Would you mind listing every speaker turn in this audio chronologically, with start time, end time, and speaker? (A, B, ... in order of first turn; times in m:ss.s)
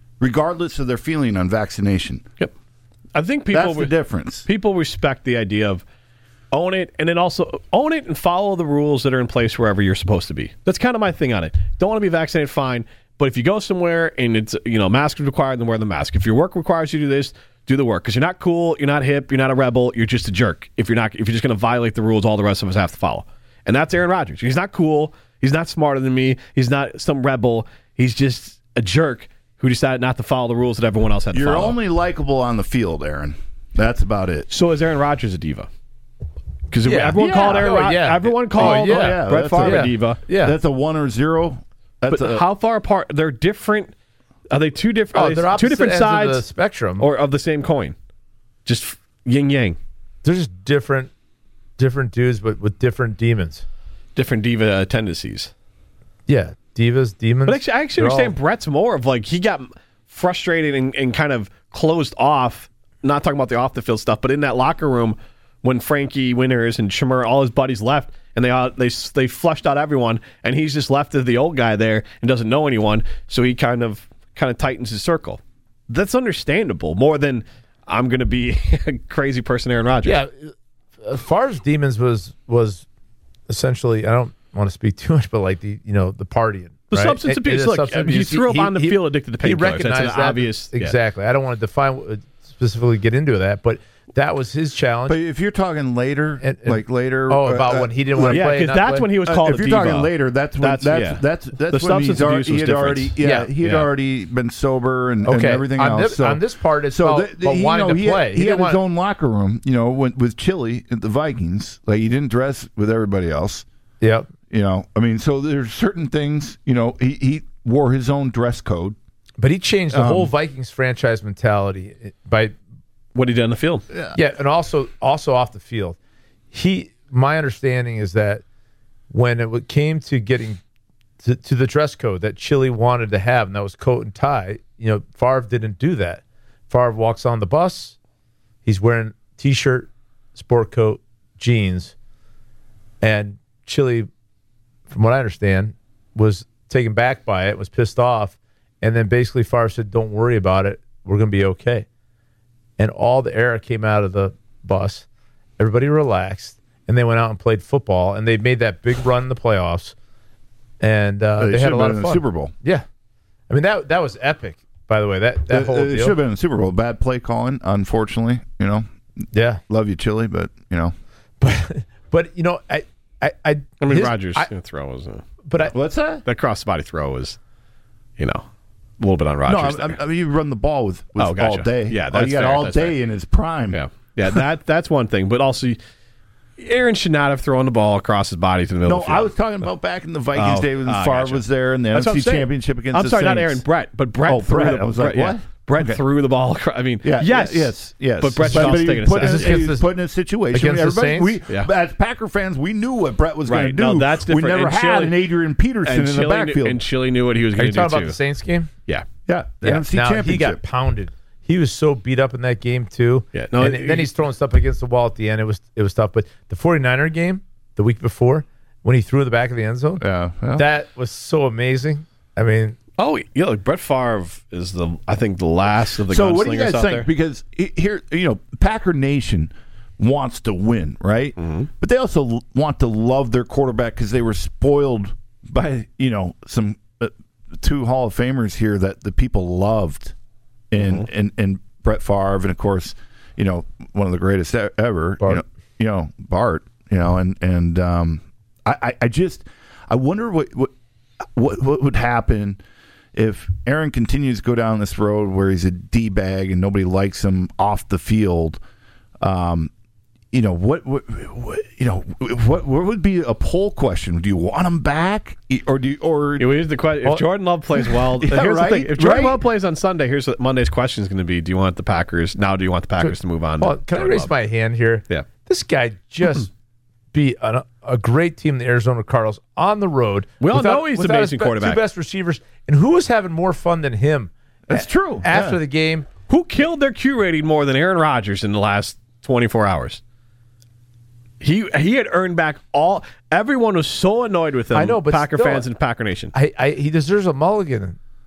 0:00.2-0:02.2 A
0:03.1-0:03.9 B
0:03.5-0:04.5 A
0:04.4-0:05.8 B
0:06.5-0:31.8 B
0:31.3-0:34.5 A
0:34.5-0:35.7 B
0:36.7-0:40.2 B
0:36.8-0:40.6 C
0:37.2-0:37.8 A
0:38.5-0:42.4 A
0:42.1-0:43.9 B
0:44.5-0:46.4 B
0:45.1-0:47.1 C
0:47.0-0:48.0 B
0:48.6-0:49.8 B
0:50.2-0:51.1 C
0:51.8-0:53.6 C
0:54.2-0:55.5 B
0:56.3-0:58.3 C
0:57.5-1:20.2 B
1:20.0-1:22.8 C
1:23.5-1:35.2 C
1:26.9-1:31.0 B
1:35.1-1:38.4 A
1:36.4-1:39.1 C
1:38.2-1:43.8 B
1:39.2-1:53.6 A
1:43.2-1:43.5 C
1:45.2-1:48.8 C
1:54.0-1:54.3 C
1:54.5-1:59.0 A
1:59.4-2:02.5 C
1:59.9-2:00.3 A
2:03.1-2:03.8 B
2:03.9-2:04.2 A
2:04.1-2:06.0 C
2:06.5-2:08.4 C
2:09.1-2:10.6 C
2:11.2-2:17.9 C
2:18.6-2:21.9 C
2:23.0-2:24.1 C
2:24.9-2:31.8 C
2:32.8-2:35.0 C
2:35.6-2:39.9 C
2:40.8-2:42.8 C
2:41.4-2:42.5 A
2:43.5-2:46.2 C
2:45.5-2:48.8 A
2:49.3-2:49.6 C
2:49.7-2:50.9 A
2:51.4-2:54.5 C
2:53.8-2:55.2 B
2:55.4-2:55.7 C
2:55.6-2:56.2 A
2:56.2-2:57.4 B
2:58.2-2:58.4 B
2:59.0-3:00.0 B
2:59.4-3:03.8 A
3:01.2-3:03.0 B
3:03.7-3:05.8 B
3:06.6-3:09.3 B
3:08.8-3:13.6 A
3:10.3-3:19.6 B
3:14.2-3:16.0 A
3:17.0-3:26.8 A
3:18.5-3:19.9 C
3:20.5-3:21.4 C
3:23.4-3:25.2 B
3:25.8-3:28.2 B
3:27.6-3:28.7 C
3:29.3-3:30.6 A
3:29.6-3:40.0 C
3:33.3-3:34.1 B
3:40.0-3:40.6 A
3:40.5-3:42.8 C
3:43.0-3:47.1 B
3:46.1-4:00.1 A
3:51.4-3:51.7 B
4:00.7-4:10.7 A
4:00.8-4:01.0 B
4:11.3-4:12.6 A
4:13.1-4:18.6 A
4:19.2-4:19.7 A
4:20.3-4:26.6 A
4:26.4-4:34.3 B
4:28.2-4:29.4 A
4:33.0-4:36.5 C
4:37.1-4:46.1 C
4:40.4-4:41.8 B
4:44.7-4:45.6 A
4:46.3-4:50.0 B
4:51.4-4:56.3 B
4:54.7-4:55.6 C
4:56.3-4:58.0 C